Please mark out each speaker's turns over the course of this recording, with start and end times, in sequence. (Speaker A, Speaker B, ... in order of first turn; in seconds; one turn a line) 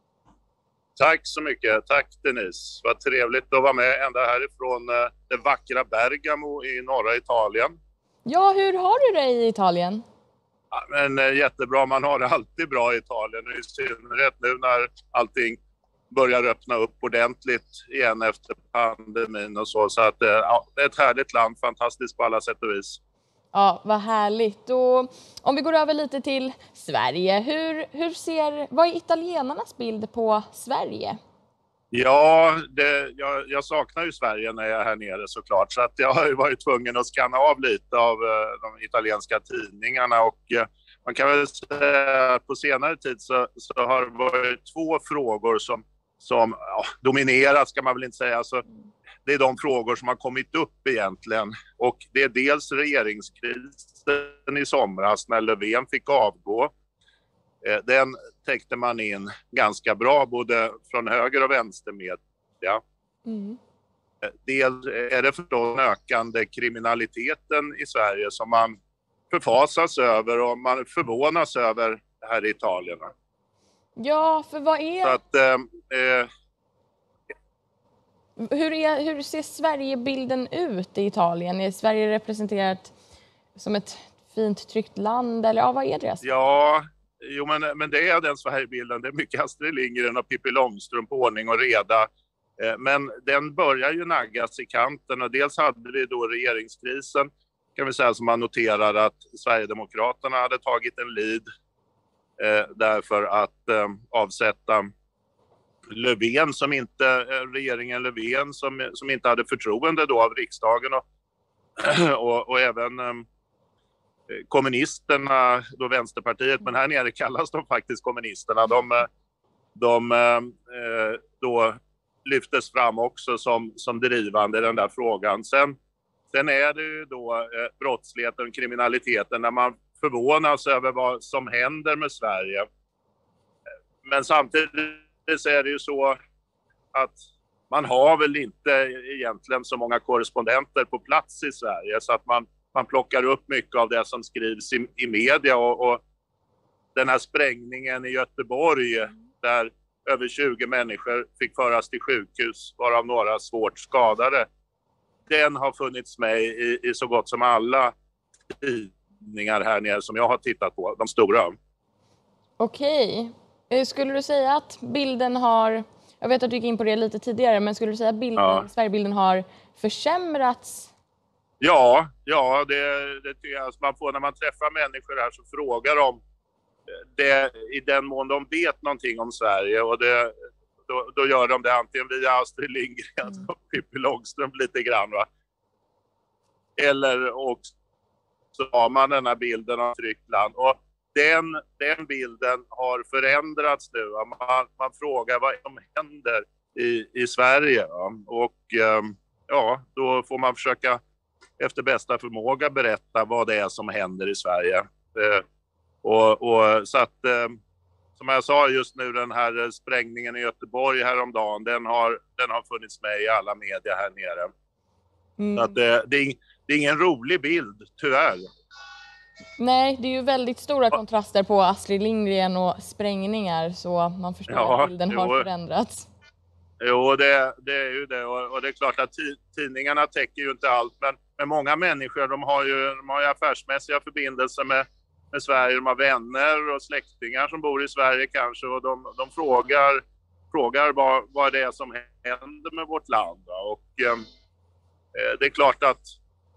Speaker A: 1.0-7.7
Speaker B: 8.2-10.0
Speaker A: 10.7-15.6
Speaker A: 16.1-23.0
Speaker B: 23.5-31.2
Speaker A: 31.9-48.6
Speaker A: 49.2-56.7
Speaker A: 57.6-62.8
Speaker B: 63.3-63.6
Speaker A: 64.3-68.7
Speaker A: 69.3-73.1
Speaker B: 74.0-75.2
Speaker A: 75.0-76.3
Speaker B: 78.4-82.9
Speaker B: 83.5-86.2
Speaker A: 86.2-92.1
Speaker A: 92.6-101.5
Speaker A: 102.4-104.9
Speaker A: 105.9-111.0
Speaker A: 111.8-113.2
Speaker A: 114.3-119.1
Speaker A: 119.8-125.7
Speaker A: 126.3-132.6
Speaker A: 134.0-136.2
Speaker A: 136.9-146.0
Speaker A: 146.9-154.4
Speaker A: 155.3-157.9
Speaker A: 158.5-161.5
Speaker B: 162.6-170.9
Speaker A: 168.4-168.7
Speaker A: 171.6-176.2
Speaker A: 177.1-180.3
Speaker A: 180.9-185.2
Speaker A: 186.8-187.7
Speaker A: 188.6-201.0
Speaker A: 201.6-205.4
Speaker A: 206.0-207.6
Speaker A: 208.2-214.5
Speaker B: 215.4-215.8
Speaker A: 215.5-218.5
Speaker B: 219.6-226.1
Speaker A: 224.5-225.5
Speaker A: 226.8-244.2
Speaker A: 245.1-246.1